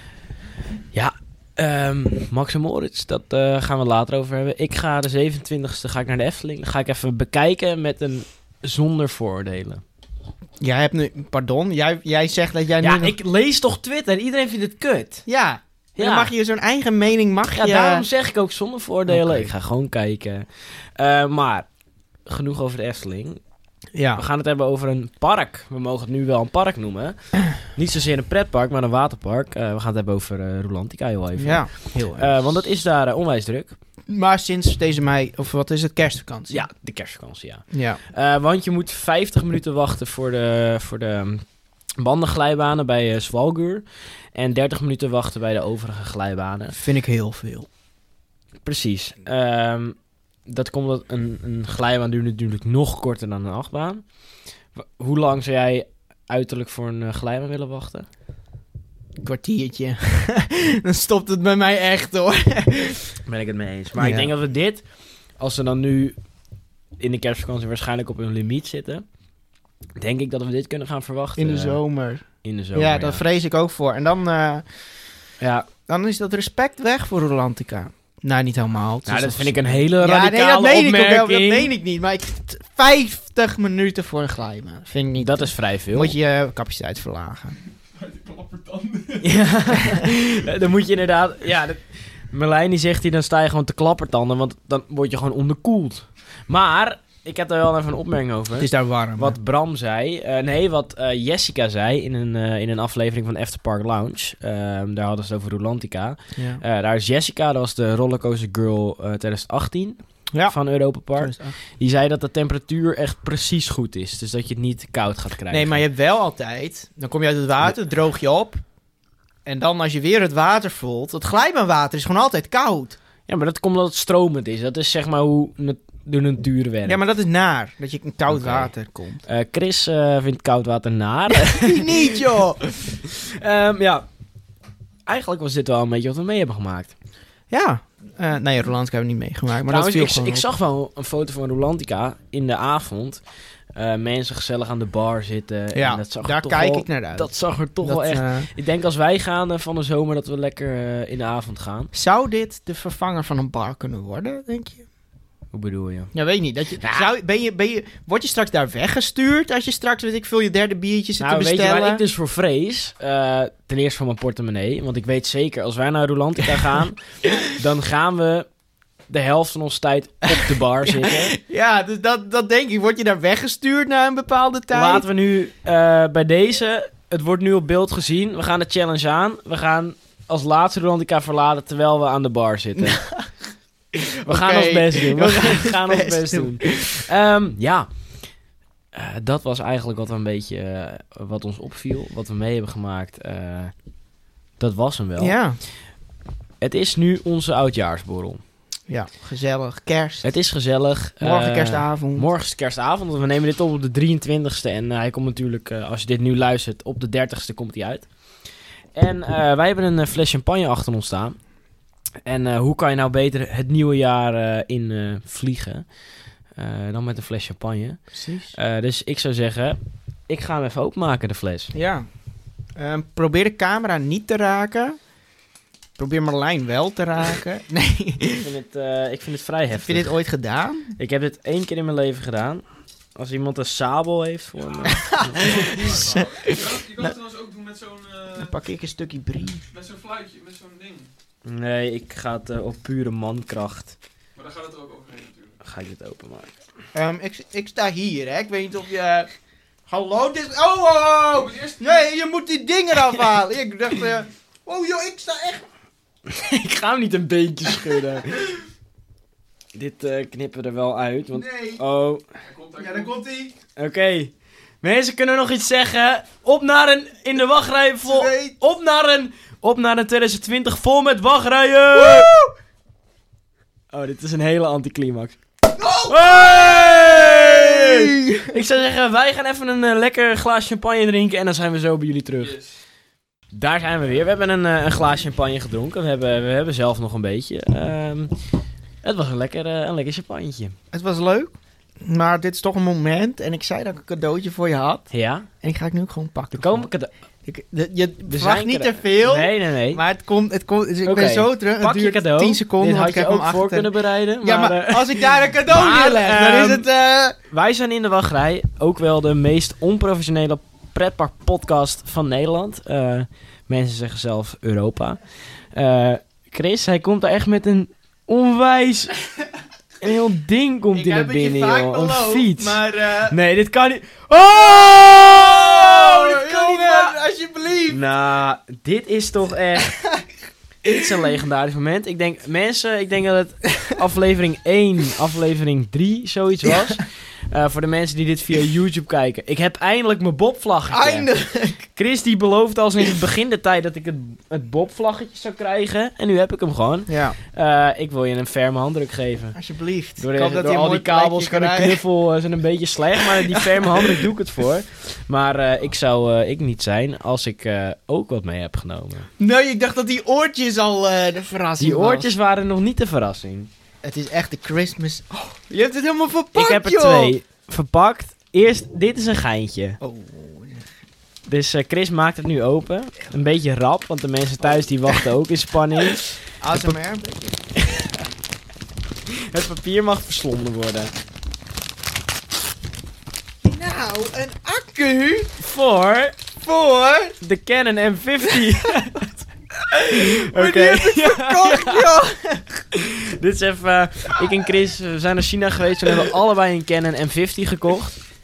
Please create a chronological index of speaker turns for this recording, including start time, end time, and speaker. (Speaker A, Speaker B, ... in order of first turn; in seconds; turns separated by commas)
Speaker A: 0.9-9.8, Speaker B: 10.6-13.1, Speaker A: 12.8-15.2, Speaker B: 15.2-18.1, Speaker A: 16.0-16.3, Speaker A: 17.5-20.4, Speaker B: 19.1-19.5, Speaker A: 21.0-21.7, Speaker A: 22.3-23.4, Speaker B: 23.9-24.2, Speaker A: 24.1-33.8, Speaker B: 31.4-32.3, Speaker B: 34.1-36.6, Speaker A: 36.5-41.4, Speaker B: 37.7-38.0, Speaker A: 42.0-46.8, Speaker B: 46.7-47.7, Speaker A: 48.6-54.0, Speaker A: 54.7-58.1, Speaker B: 59.2-63.2, Speaker A: 63.2-64.8, Speaker B: 64.0-64.3, Speaker A: 65.4-66.2, Speaker A: 67.0-69.0, Speaker A: 70.0-71.8, Speaker B: 71.3-74.6, Speaker A: 72.4-73.2, Speaker A: 75.4-75.7, Speaker B: 75.9-87.5, Speaker A: 79.0-81.7, Speaker A: 85.2-86.2, Speaker C: 88.0-89.4, Speaker A: 89.2-115.8, Speaker B: 98.6-99.3, Speaker B: 106.3-106.6, Speaker B: 111.2-111.5, Speaker B: 115.5-118.6, Speaker B: 119.5-123.0, Speaker A: 123.3-127.0, Speaker B: 126.8-129.2, Speaker A: 128.3-128.7, Speaker A: 129.3-134.1, Speaker B: 131.3-132.6, Speaker A: 135.1-136.9, Speaker B: 137.5-140.5, Speaker A: 139.7-143.2, Speaker A: 143.7-151.9, Speaker B: 145.7-148.5, Speaker B: 151.9-154.8, Speaker A: 155.5-156.1, Speaker B: 156.1-162.0, Speaker A: 156.8-157.1, Speaker A: 161.2-167.0, Speaker B: 166.6-167.5, Speaker A: 167.5-168.5, Speaker A: 169.1-171.3, Speaker B: 170.3-175.1, Speaker A: 174.7-183.0, Speaker B: 182.8-183.3, Speaker B: 183.9-187.1, Speaker A: 184.2-187.9, Speaker A: 188.9-193.7, Speaker A: 194.6-195.4, Speaker B: 195.2-195.6, Speaker A: 196.6-198.4, Speaker B: 198.9-200.3, Speaker A: 200.2-208.1, Speaker B: 201.2-202.3, Speaker A: 208.9-211.4, Speaker A: 212.2-215.8, Speaker A: 216.6-218.0, Speaker B: 218.1-218.5, Speaker A: 218.5-221.7, Speaker B: 221.7-222.1, Speaker B: 222.8-225.0, Speaker B: 226.0-228.5, Speaker A: 228.4-230.1, Speaker B: 229.7-230.9, Speaker A: 231.0-232.6, Speaker A: 233.2-235.9, Speaker B: 234.8-237.1, Speaker C: 235.4-238.5, Speaker B: 238.3-239.6, Speaker C: 239.7-241.1, Speaker A: 241.4-243.9, Speaker C: 244.3-245.5, Speaker A: 245.6-246.5, Speaker B: 246.9-249.3, Speaker B: 249.9-255.7, Speaker C: 251.3-252.0, Speaker A: 256.3-258.4, Speaker A: 259.7-262.2, Speaker B: 261.3-261.8, Speaker C: 262.4-263.2, Speaker B: 262.8-263.5, Speaker A: 263.8-272.3, Speaker B: 268.0-268.5, Speaker B: 271.9-272.5, Speaker A: 273.9-275.4, Speaker B: 275.7-278.5, Speaker A: 276.0-282.5, Speaker C: 282.4-282.7, Speaker A: 283.5-288.3, Speaker A: 289.0-290.8, Speaker B: 290.9-295.1, Speaker A: 295.1-295.5, Speaker B: 295.6-296.9, Speaker A: 296.5-297.1, Speaker B: 297.4-307.4, Speaker A: 298.3-300.0, Speaker A: 301.0-306.9, Speaker A: 307.5-315.2, Speaker A: 315.7-319.1, Speaker A: 320.0-327.1, Speaker B: 320.9-323.4, Speaker B: 324.5-328.0, Speaker A: 327.9-330.0, Speaker B: 329.9-330.2, Speaker B: 330.8-331.1, Speaker A: 330.8-341.3, Speaker B: 336.6-336.9, Speaker B: 340.9-341.9, Speaker A: 341.9-349.6, Speaker B: 347.1-347.4, Speaker B: 349.5-352.0, Speaker A: 350.2-359.3, Speaker B: 353.2-354.3, Speaker B: 359.4-362.3, Speaker A: 361.8-363.7, Speaker B: 364.0-367.3, Speaker A: 366.5-370.0, Speaker B: 370.0-370.9, Speaker A: 371.5-376.9, Speaker B: 376.6-377.7, Speaker A: 379.3-381.1, Speaker B: 383.6-385.5, Speaker A: 385.6-386.4, Speaker B: 386.6-387.3, Speaker A: 387.4-389.3, Speaker B: 388.5-389.2, Speaker B: 389.9-392.8, Speaker A: 390.1-392.1, Speaker A: 392.9-398.2